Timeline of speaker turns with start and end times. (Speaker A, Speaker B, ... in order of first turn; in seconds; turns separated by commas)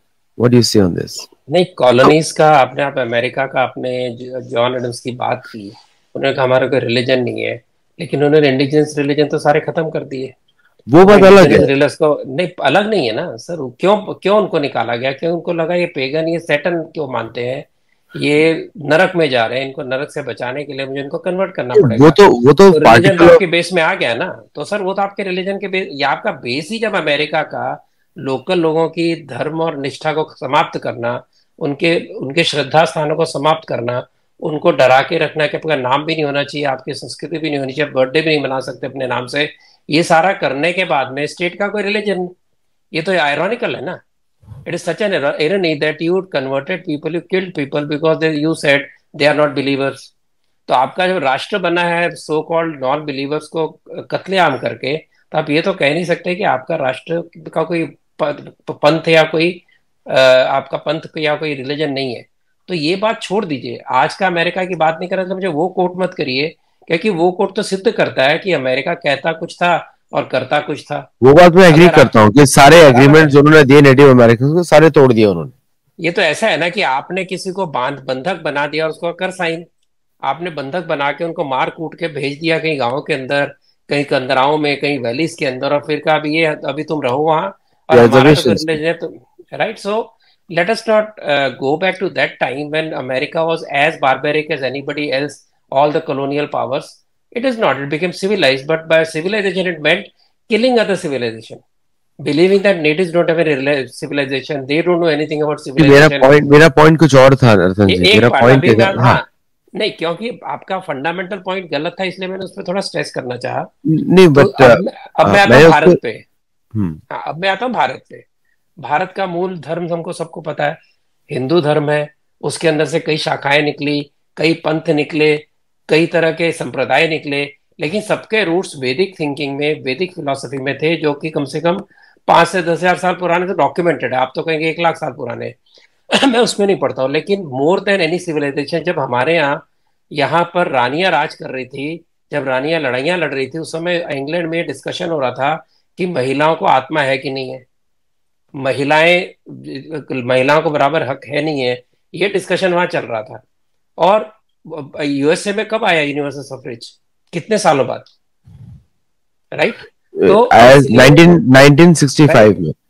Speaker A: 0.4-1.3, Speaker B: 1.5-10.3, Speaker A: 10.9-11.7, Speaker B: 11.0-42.3, Speaker A: 21.8-23.4, Speaker B: 42.9-44.0, Speaker B: 44.6-50.1, Speaker B: 50.7-71.1, Speaker A: 71.2-75.5, Speaker B: 71.7-72.1, Speaker B: 72.7-73.3, Speaker B: 76.0-79.7, Speaker B: 80.2-101.6, Speaker A: 87.9-88.8, Speaker B: 102.2-106.3, Speaker A: 105.8-109.2, Speaker B: 107.9-113.7, Speaker A: 113.8-116.0, Speaker B: 114.3-116.2, Speaker A: 116.7-117.0, Speaker B: 117.1-118.2, Speaker B: 118.8-120.8, Speaker B: 121.3-135.5, Speaker B: 136.1-147.6, Speaker B: 148.6-153.4, Speaker B: 154.0-158.1, Speaker B: 159.5-161.2, Speaker A: 160.1-162.7, Speaker B: 162.3-162.5